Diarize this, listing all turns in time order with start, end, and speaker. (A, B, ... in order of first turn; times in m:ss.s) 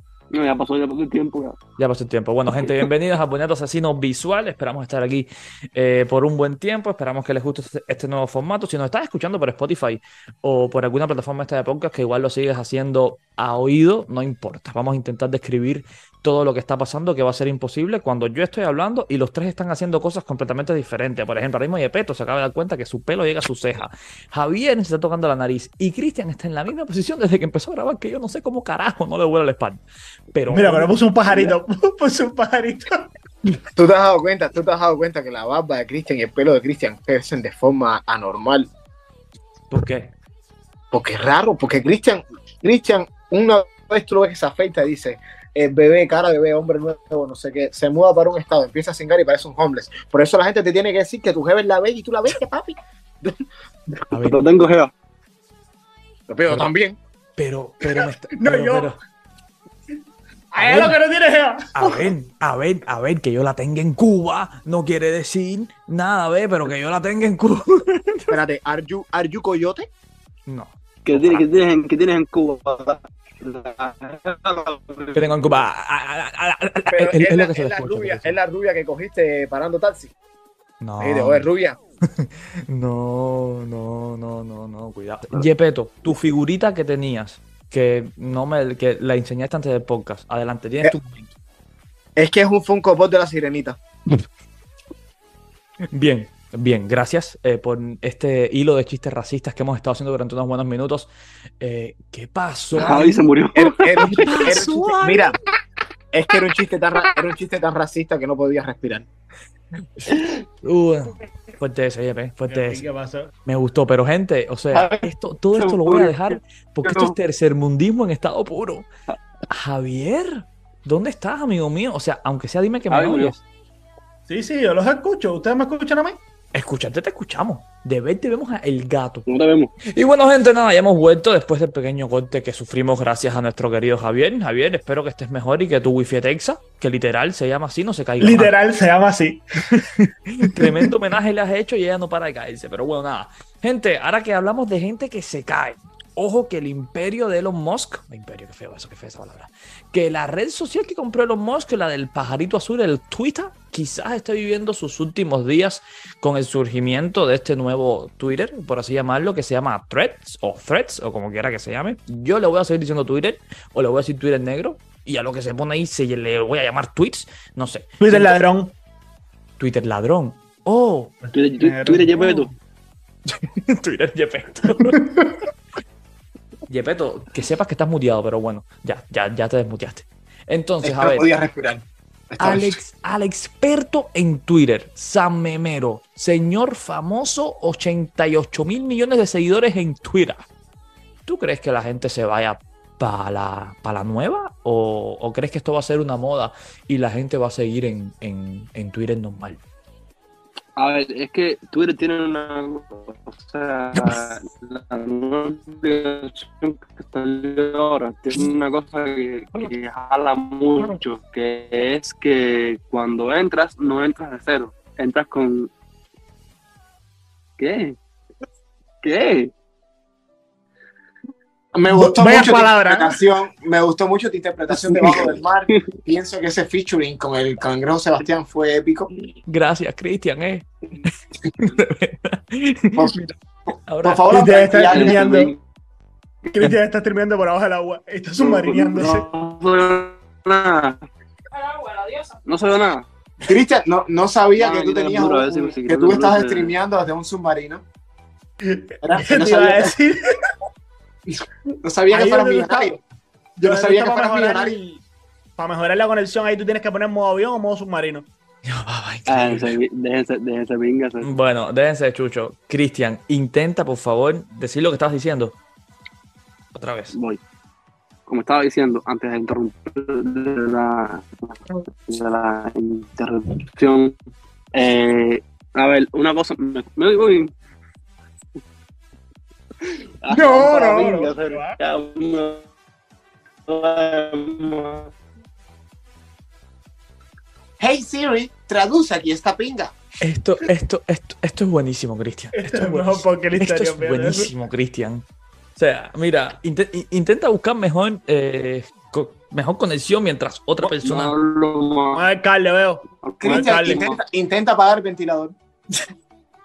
0:00.3-0:01.6 A
0:01.8-0:29.8 B
0:30.3-0:31.5 B
0:30.5-0:33.0 C
0:33.8-0:38.7 D
0:39.7-0:40.1 B
0:40.9-0:53.4 D
0:54.1-0:54.4 B
0:54.1-0:54.9 A
0:56.3-0:57.0 D
0:57.4-0:59.0 B
0:58.0-0:58.9 C
1:00.5-1:02.1 C
1:00.6-1:01.0 B
1:01.8-1:08.4 B
1:08.3-1:09.9 D
1:10.5-1:11.4 B
1:11.0-1:15.6 A
1:15.2-1:18.4 B
1:16.9-1:20.1 D
1:20.8-1:21.5 B
1:21.0-1:21.8 D
1:22.2-1:31.3 B
1:32.2-1:33.8 D
1:35.9-1:41.1 B
1:41.6-1:43.2 B
1:42.8-1:44.6 A
1:43.6-1:45.4 D
1:44.0-1:45.4 B
1:46.1-1:49.1 D
1:50.0-1:52.8 B
1:52.5-1:53.3 C
1:53.5-1:58.9 B
1:54.7-1:57.1 A
1:59.5-2:03.4 B
2:02.9-2:03.4 A
2:04.3-2:06.2 C
2:06.5-2:09.3 B
2:09.3-2:09.7 A
2:09.8-2:18.5 B
2:18.2-2:20.9 C
2:20.4-2:48.4 B
2:48.0-2:48.7 C
2:49.6-2:51.1 B
2:51.2-2:52.6 C
2:51.3-2:52.5 A
2:53.3-2:55.0 B
2:54.8-2:55.3 C
2:56.7-3:01.3 B
3:00.8-3:02.8 D
3:02.4-3:10.4 B
3:11.3-3:19.6 B
3:20.8-3:35.7 A
3:37.6-3:38.0 A
3:39.0-3:39.5 A
3:41.7-3:49.1 D
3:41.9-3:43.2 C
3:44.7-3:45.9 A
3:49.5-3:50.7 B
3:51.6-3:53.1 B
3:53.0-3:55.3 D
3:53.9-3:54.4 B
3:54.3-3:55.5 C
3:54.8-3:55.6 A
3:56.5-3:59.3 C
3:58.4-4:01.0 A
4:01.8-4:03.1 A
4:03.4-4:07.8 D
4:04.6-4:06.7 A
4:08.6-4:10.4 C
4:09.0-4:09.9 D
4:11.3-4:13.0 D
4:12.1-4:13.0 C
4:13.6-4:14.8 D
4:13.6-4:15.0 C
4:15.6-4:18.3 C
4:18.6-4:19.8 B
4:19.3-4:21.3 A
4:21.2-4:25.6 B
4:26.7-4:27.2 B
4:27.1-4:27.4 A
4:28.3-4:34.2 A
4:34.7-4:37.5 A
4:39.8-4:42.7 A
4:40.3-4:41.8 C
4:43.7-4:45.1 A
4:47.8-4:50.0 D
4:50.2-4:55.2 B
4:52.5-4:54.5 C
4:55.8-5:01.3 B
5:00.8-5:02.2 A
5:02.1-5:04.1 C
5:03.2-5:04.2 A
5:03.4-5:05.6 D